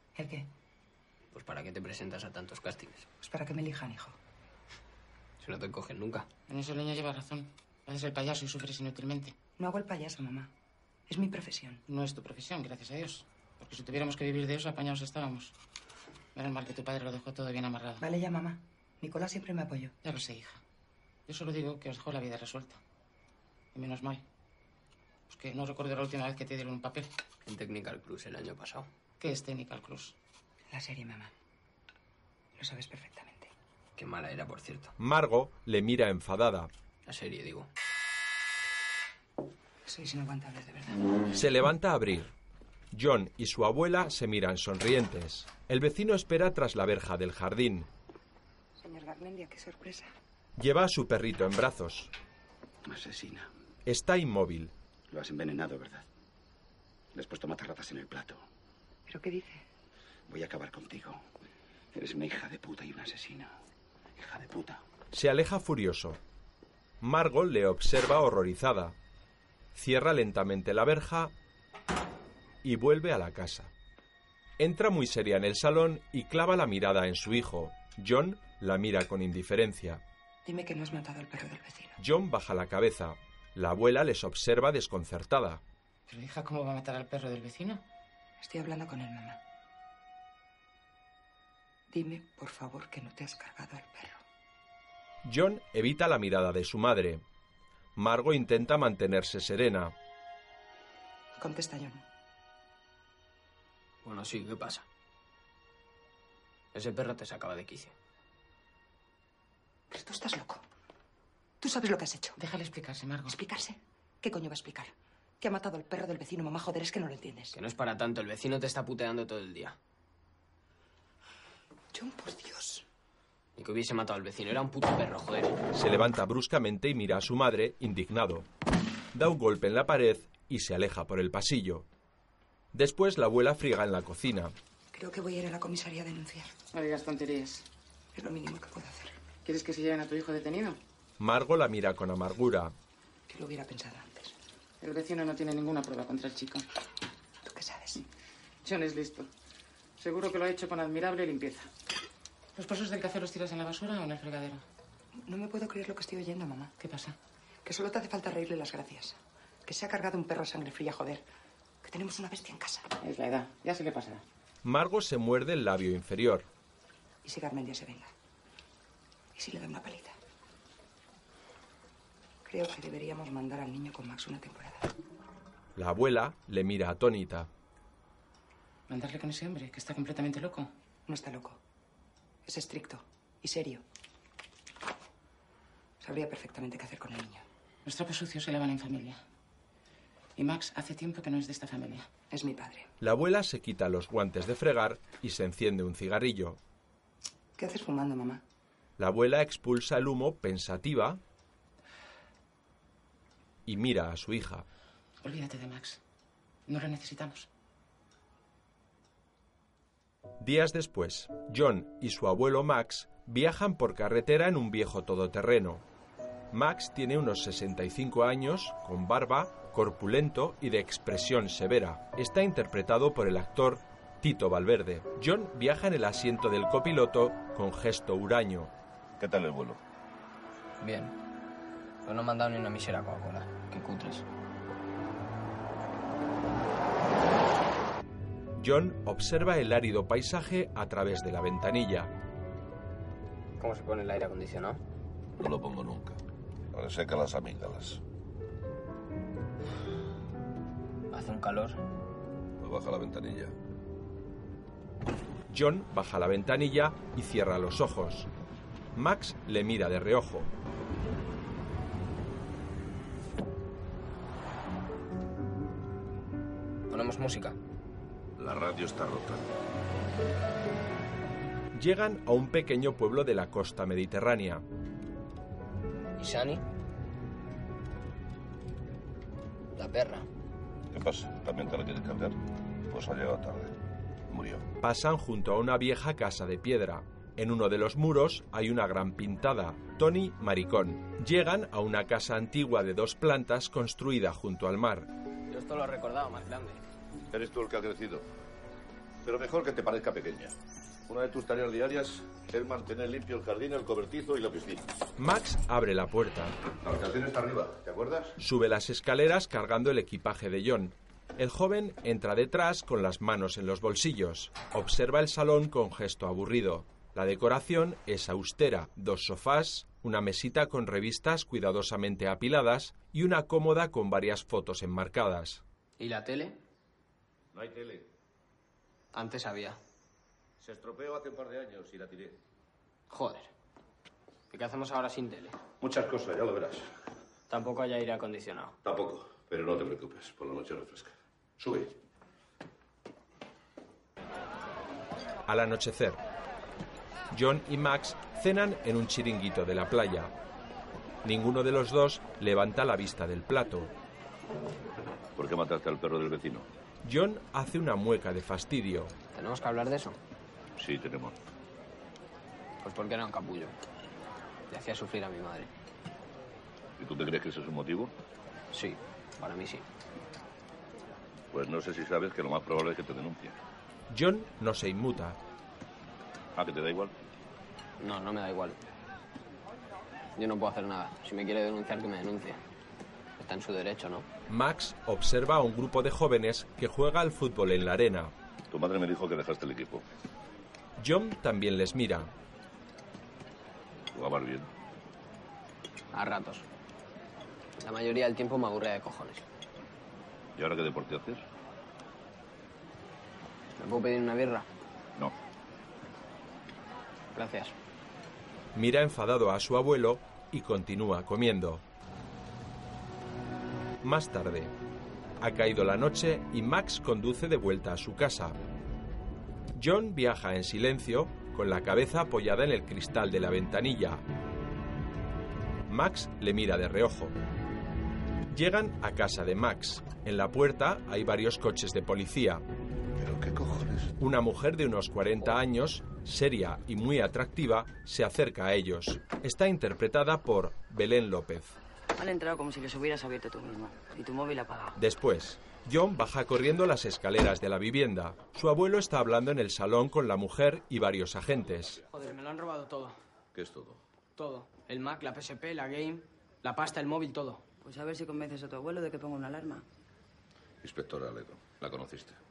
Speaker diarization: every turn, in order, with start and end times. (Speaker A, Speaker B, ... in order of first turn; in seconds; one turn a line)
Speaker A: 0.1-0.5
Speaker B: 1.3-3.0
Speaker A: 3.2-4.2
Speaker B: 5.4-6.3
Speaker C: 6.5-9.3
Speaker A: 9.6-10.5
Speaker A: 11.1-11.8
Speaker C: 11.9-15.5
Speaker C: 16.4-18.0
Speaker A: 18.0-19.9
Speaker C: 20.0-20.6
Speaker C: 21.3-22.8
Speaker C: 23.7-24.2
Speaker C: 25.3-27.1
Speaker B: 27.4-28.9
Speaker C: 29.2-30.1
Speaker A: 30.7-31.3
Speaker A: 32.6-33.5
Speaker B: 34.0-34.9
Speaker D: 35.0-36.7
Speaker B: 37.0-37.7
Speaker A: 39.9-41.0
Speaker D: 41.3-42.3
Speaker D: 42.9-47.9
Speaker A: 48.8-50.1
Speaker D: 50.6-52.1
Speaker E: 52.9-53.5
Speaker D: 53.9-54.7
Speaker E: 55.1-56.0
Speaker E: 57.1-58.4
Speaker A: 59.1-59.6
Speaker E: 60.3-61.2
Speaker E: 61.9-63.5
Speaker E: 64.2-64.8
Speaker D: 65.1-66.2
Speaker D: 67.0-69.0
Speaker D: 69.8-71.3
Speaker D: 72.6-73.7
Speaker D: 74.6-80.0
Speaker A: 80.4-82.0
Speaker D: 82.0-85.6
Speaker C: 86.1-87.8
Speaker A: 88.4-89.4
Speaker A: 91.9-94.2
Speaker D: 95.2-97.2
Speaker D: 98.0-99.9
Speaker A: 101.4-102.0
Speaker B: 104.0-104.9
Speaker B: 106.7-107.9
Speaker A: 109.9-110.6
Speaker A: 111.6-112.4
Speaker C: 112.4-113.4
Speaker A: 113.3-117.5
Speaker B: 117.5-119.8
Speaker A: 121.9-122.8
Speaker B: 123.6-125.6
Speaker D: 125.7-128.5
Speaker D: 129.1-131.9
Speaker D: 132.7-134.5
Speaker A: 134.9-136.5
Speaker C: 136.7-137.6
Speaker A: 138.1-139.2
Speaker C: 139.4-140.8
Speaker D: 141.2-142.7
Speaker A: 143.3-144.3
Speaker C: 144.8-146.6
Speaker A: 147.4-148.0
Speaker C: 148.6-149.3
Speaker C: 150.0-151.7
Speaker C: 152.6-154.6
Speaker A: 155.2-156.8
Speaker C: 156.8-157.2
Speaker A: 157.6-161.2
Speaker A: 161.8-162.9
Speaker C: 163.0-164.2
Speaker D: 164.6-166.5
Speaker A: 167.2-168.1
Speaker A: 169.3-170.1
Speaker A: 172.4-174.9
Speaker D: 175.8-177.5
Speaker C: 178.9-180.7
Speaker A: 181.1-181.6
Speaker A: 182.4-183.8
Speaker A: 186.0-187.4
Speaker C: 187.8-189.2
Speaker C: 190.4-192.1
Speaker A: 192.3-192.9
Speaker D: 193.0-196.6
Speaker A: 197.6-198.4
Speaker D: 199.0-201.2
Speaker D: 203.7-204.7
Speaker C: 205.2-206.0
Speaker C: 206.7-207.5
Speaker D: 210.4-215.8
Speaker D: 216.5-228.7
Speaker F: 229.2-229.8
Speaker B: 230.8-231.1
Speaker B: 232.1-234.2
Speaker D: 238.6-242.1
Speaker B: 243.6-244.8
Speaker F: 245.4-246.2
Speaker F: 246.7-248.0
Speaker B: 251.1-251.8
Speaker F: 252.6-253.5
Speaker D: 255.5-258.3
Speaker D: 258.9-260.5
Speaker B: 266.9-267.6
Speaker F: 268.4-269.4
Speaker D: 271.7-274.6
Speaker B: 276.2-276.6
Speaker B: 279.8-280.3
Speaker F: 280.9-282.4
Speaker F: 282.9-283.8
Speaker F: 284.3-284.6
Speaker D: 284.8-295.1
Speaker B: 295.5-296.8
Speaker F: 297.3-298.2
Speaker F: 299.2-300.5
Speaker F: 301.1-304.9
Speaker D: 305.2-306.6
Speaker F: 306.8-308.4
Speaker D: 308.4-325.6
Speaker B: 326.0-326.6
Speaker F: 327.5-328.1
Speaker B: 329.1-329.8
Speaker F: 330.6-332.4
Speaker B: 333.1-333.5
Speaker B: 334.5-335.6
Speaker F: 335.8-336.9
Speaker B: 337.5-338.8
Speaker F: 338.8-341.9
Speaker D: 345.4-346.2
Speaker D: 347.3-350.3
Speaker D: 351.2-353.9
Speaker F: 355.4-356.7
Speaker D: 357.0-359.1
Speaker B: 359.4-360.2
Speaker F: 360.8-361.4
Speaker B: 362.8-363.7
Speaker B: 364.7-365.7
Speaker F: 367.0-368.1
Speaker B: 368.7-369.9
Speaker F: 371.5-373.6
Speaker D: 374.1-375.4
Speaker F: 376.6-377.1
Speaker B: 378.0-378.8
Speaker B: 380.4-382.6
Speaker B: 383.4-384.2
Speaker D: 384.5-388.3
Speaker F: 388.7-390.0
Speaker D: 391.0-392.3
Speaker F: 394.1-394.7
Speaker B: 396.1-396.6
Speaker B: 397.8-399.4
Speaker F: 400.6-401.4
Speaker B: 403.8-404.7
Speaker B: 407.4-407.7
Speaker D: 408.7-411.8
Speaker D: 414.0-414.7
Speaker D: 415.4-418.6
Speaker D: 419.7-424.2
Speaker D: 425.9-427.3
Speaker D: 428.5-432.6
Speaker F: 433.1-434.1
Speaker D: 434.2-441.8
Speaker G: 442.2-444.9
Speaker D: 444.9-452.0
Speaker B: 452.1-453.1
Speaker F: 453.5-454.0
Speaker B: 454.4-457.6
Speaker G: 457.8-459.9
Speaker F: 460.8-462.4